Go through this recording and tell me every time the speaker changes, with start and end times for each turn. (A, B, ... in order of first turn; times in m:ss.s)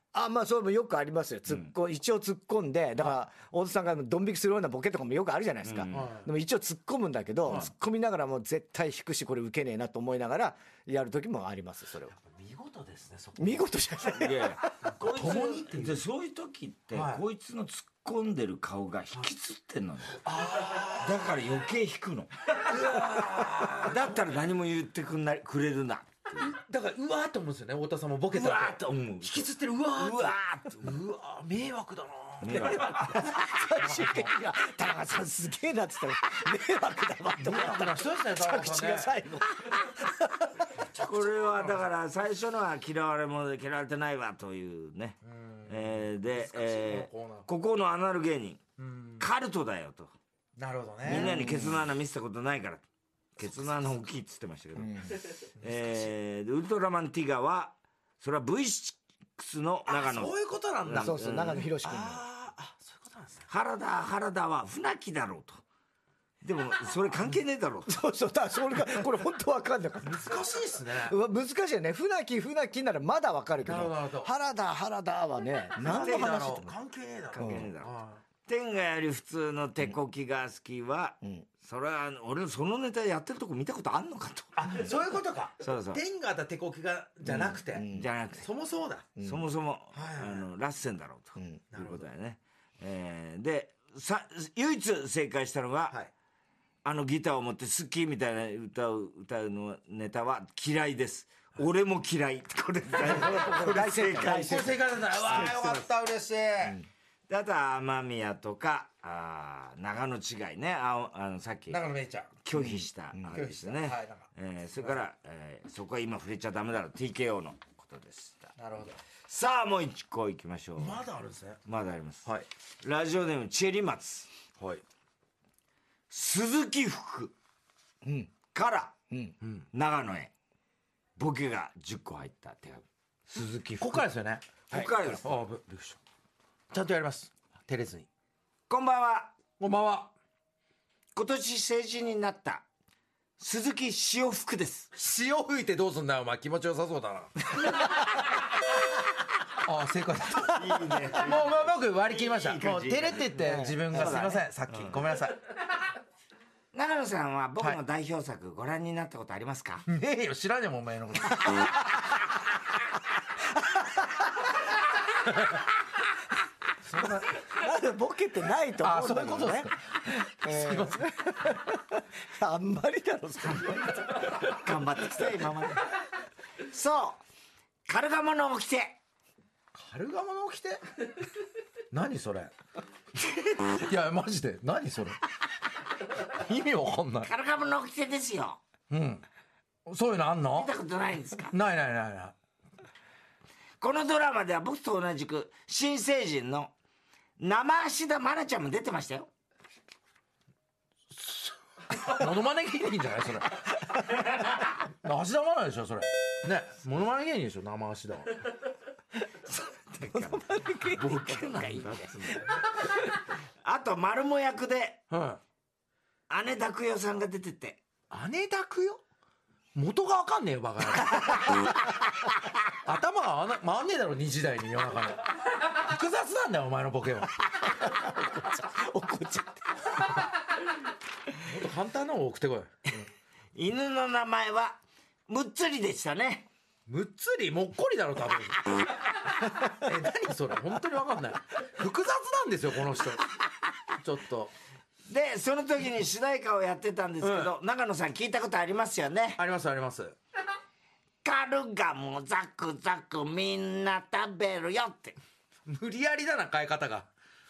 0:00.1-0:12.1 A
0:05.6-0:06.1 B
0:05.9-0:06.3 C
0:12.1-0:13.7 C
0:13.4-0:14.9 A
0:14.1-0:26.5 B
0:14.9-0:16.0 C
0:16.9-0:17.2 C
0:20.2-0:21.4 C
0:22.5-0:24.2 C
0:26.4-0:33.2 C
0:28.3-0:31.0 B
0:32.4-0:33.5 B
0:32.5-0:40.7 A
0:33.8-0:34.3 C
0:37.4-0:39.1 C
0:40.9-0:41.8 C
0:41.0-0:48.6 B
0:45.2-0:47.5 C
0:48.8-0:49.3 C
0:49.2-0:50.1 B
0:50.6-0:51.4 C
0:51.0-0:52.8 B
0:51.1-0:51.8 A
0:53.4-1:01.6 B
0:54.8-0:55.1 A
0:59.9-1:03.5 C
1:00.9-1:02.2 A
1:03.5-1:05.6 B
1:06.4-1:08.0 B
1:07.9-1:16.8 A
1:10.1-1:11.2 C
1:13.6-1:14.3 C
1:15.8-1:18.2 C
1:15.8-1:16.4 B
1:17.3-1:18.0 B
1:17.4-1:17.7 A
1:18.5-1:24.6 B
1:21.2-1:21.5 A
1:24.6-1:29.1 C
1:25.6-1:26.0 B
1:27.3-1:28.1 A
1:27.3-1:28.5 B
1:29.2-1:29.4 A
1:29.2-1:36.0 B
1:29.9-1:30.5 C
1:31.4-1:31.6 A
1:31.7-1:32.0 C
1:36.8-1:45.9 B
1:43.0-1:45.8 A
1:43.0-1:43.4 C
1:44.2-1:46.8 C
1:47.3-1:51.8 B
1:51.7-1:52.3 C
1:52.4-1:58.5 B
1:52.6-1:53.4 A
1:53.3-1:54.3 C
1:58.6-1:59.0 C
1:59.3-2:01.0 B
2:00.8-2:01.6 C
2:01.7-2:02.3 B
2:02.8-2:04.3 B
2:06.1-2:07.3 B
2:08.0-2:08.3 A
2:08.5-2:09.0 B
2:09.1-2:09.4 A
2:09.7-2:10.3 B
2:11.2-2:14.1 B
2:13.8-2:16.0 C
2:14.7-2:15.4 B
2:16.7-2:18.1 C
2:18.7-2:19.4 B
2:19.6-2:20.1 C
2:21.1-2:22.7 B
2:23.4-2:24.9 B
2:24.9-2:27.5 C
2:29.6-2:35.4 C
2:30.4-2:35.1 B
2:33.4-2:34.2 A
2:36.7-2:39.8 B
2:39.9-2:41.7 C
2:46.8-2:47.4 C
2:47.4-2:54.4 A
2:48.8-2:49.7 C
2:50.4-2:51.2 C
2:54.2-2:55.9 B
2:56.7-2:57.2 B
2:57.9-2:59.0 B
2:59.7-3:00.8 C
3:01.9-3:02.5 C
3:03.6-3:05.2 C
3:06.3-3:07.3 C
3:07.2-3:08.6 B
3:08.9-3:09.2 C
3:09.9-3:10.7 C
3:10.5-3:11.6 B
3:11.5-3:12.4 C
3:13.8-3:16.7 B
3:17.4-3:19.3 B
3:21.1-3:21.5 C
3:22.1-3:23.6 C
3:25.0-3:28.4 C
3:29.4-3:32.9 B
3:30.1-3:32.2 A
3:33.6-3:35.0 B
3:35.1-3:35.4 C
3:36.3-3:37.8 B
3:38.1-3:39.0 C
3:39.8-3:41.7 C
3:42.8-3:47.3 C
3:47.7-3:50.0 A
3:51.4-3:52.7 C
3:53.6-3:56.5 B
3:56.9-3:58.8 C
3:59.6-4:03.2 C
4:04.0-4:04.5 C
4:05.1-4:09.4 B
4:07.2-4:07.5 C
4:09.4-4:10.2 C
4:11.2-4:15.2 B
4:15.7-4:17.1 C